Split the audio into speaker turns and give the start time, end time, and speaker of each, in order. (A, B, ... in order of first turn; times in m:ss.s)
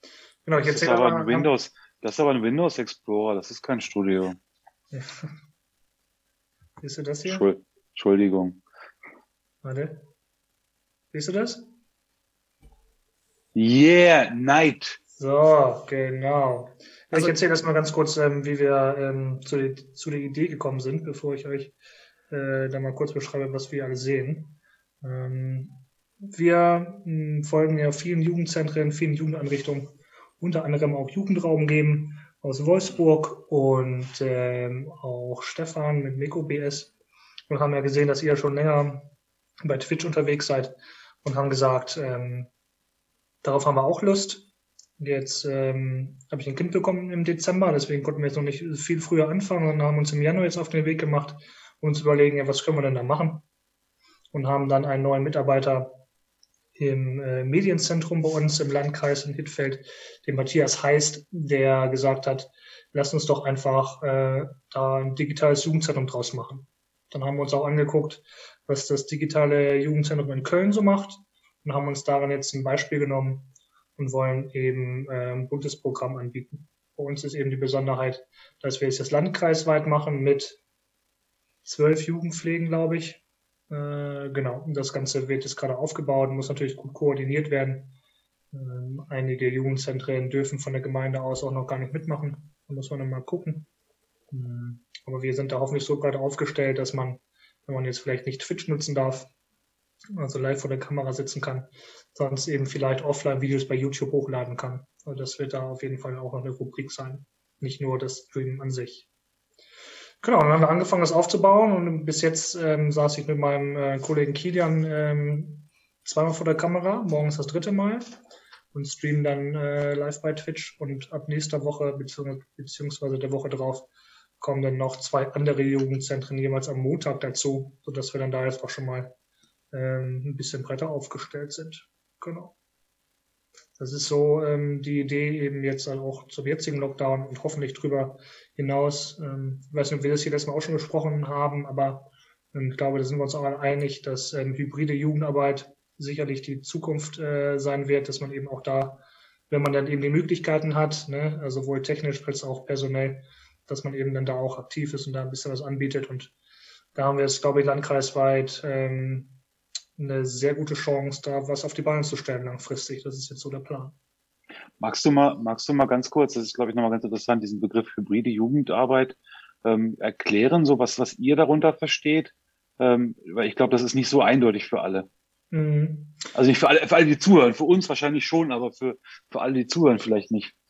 0:00.4-0:01.5 A
0:00.6-0:04.4 B
0:04.9-0:05.3 A
0:06.8-0:07.5 A
0:07.2-0:08.6 B
0:09.6-0:10.0 A
0:11.1-0:11.7 A
0:13.5-0:15.0 B
0:15.2-0:21.8 A
0:22.3-0:25.8 A
0:26.3-0:36.9 A
0:37.5-0:39.1 A
0:39.6-0:42.5 A
0:43.4-0:44.5 A
0:45.0-0:53.4 A
0:54.3-0:56.0 A
0:56.8-1:20.6 A
1:21.6-1:27.9 A
1:28.5-1:33.7 A
1:34.3-1:39.3 A
1:40.2-1:49.1 A
1:50.2-1:58.0 A
1:58.7-2:03.8 A
2:04.4-2:09.1 A
2:09.7-2:12.5 A
2:13.8-2:36.3 A
2:36.9-2:39.4 A
2:40.0-2:43.9 A
2:44.8-2:55.1 B
2:55.5-2:56.2 A
2:56.3-3:00.5 B